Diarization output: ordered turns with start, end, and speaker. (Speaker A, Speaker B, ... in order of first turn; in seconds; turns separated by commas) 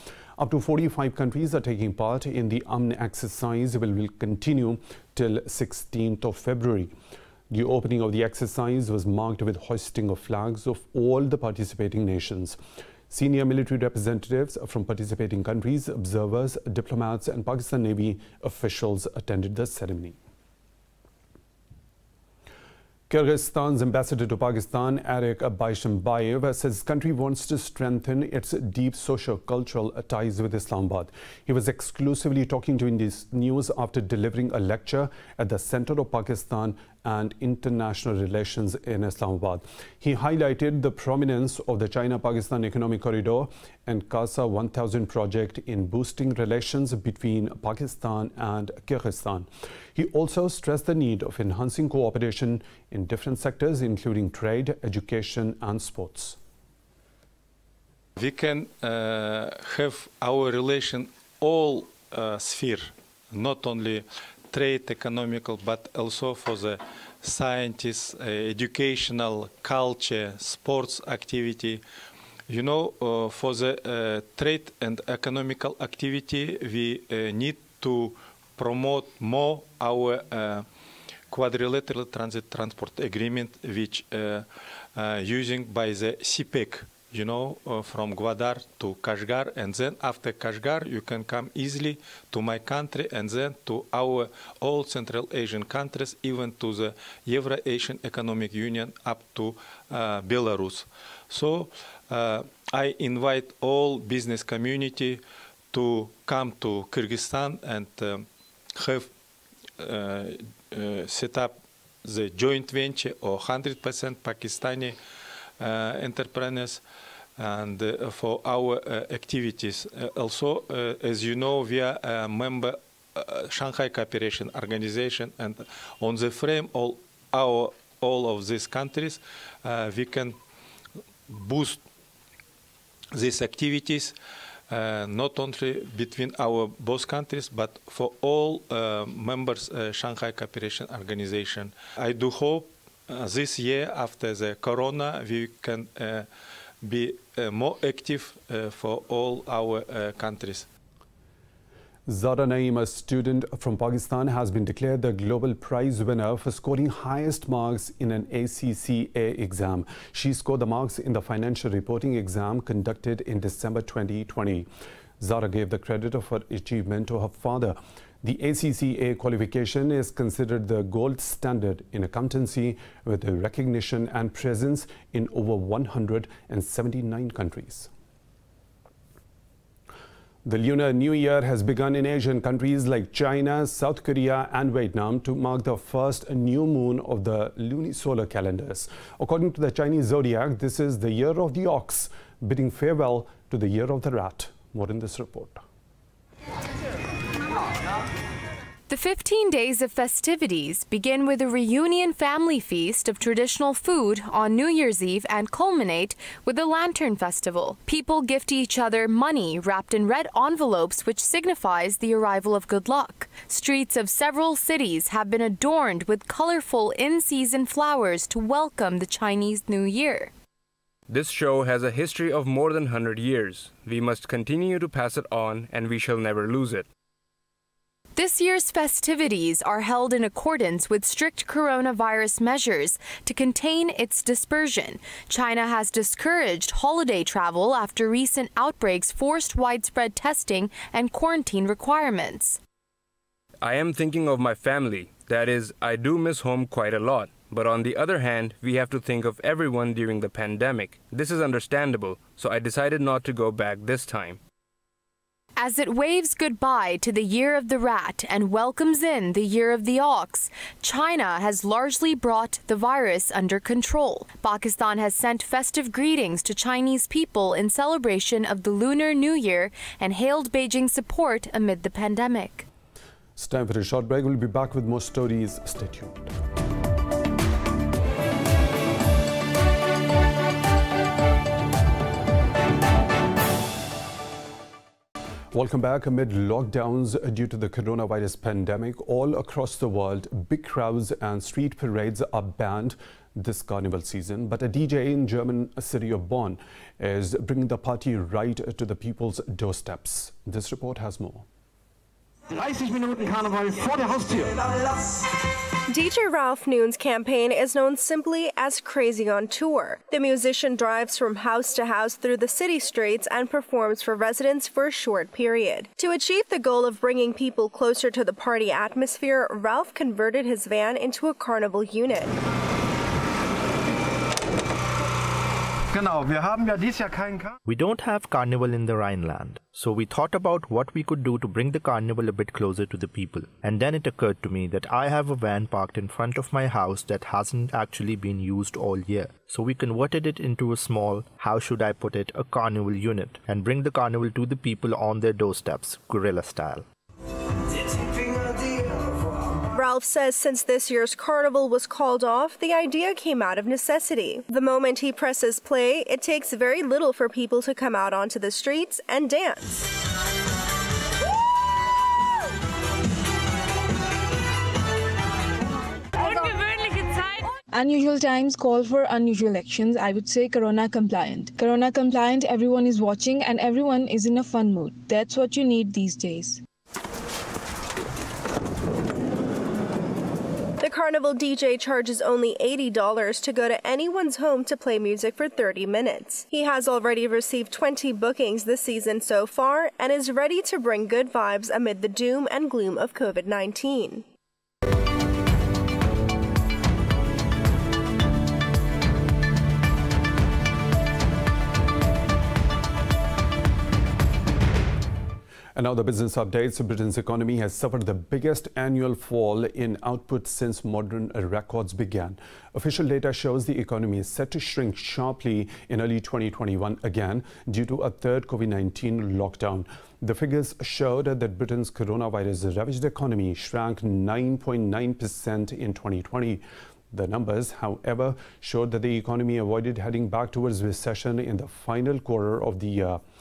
Speaker A: 0.4-6.9, Speaker A: 7.5-12.6, Speaker A: 13.1-20.2, Speaker A: 23.1-56.4, Speaker B: 58.2-71.8, Speaker B: 72.5-80.7, Speaker B: 81.3-109.1, Speaker B: 109.8-115.0, Speaker B: 115.6-116.8, Speaker B: 117.4-130.4, Speaker B: 131.3-131.8, Speaker B: 133.1-134.1, Speaker B: 134.7-146.3, Speaker B: 146.8-150.7, Speaker A: 152.1-164.7, Speaker A: 165.2-177.9, Speaker A: 180.4-195.6, Speaker C: 198.9-220.3, Speaker D: 221.1-226.9, Speaker C: 228.2-242.6, Speaker D: 243.6-254.4, Speaker C: 255.6-272.7, Speaker A: 273.4-276.3, Speaker A: 285.5-301.4, Speaker E: 302.5-304.7, Speaker F: 305.9-322.4, Speaker E: 325.9-327.6, Speaker G: 327.7-346.9, Speaker F: 349.7-359.9, Speaker H: 366.2-366.7, Speaker H: 367.7-376.6, Speaker F: 380.8-394.2, Speaker A: 405.8-433.2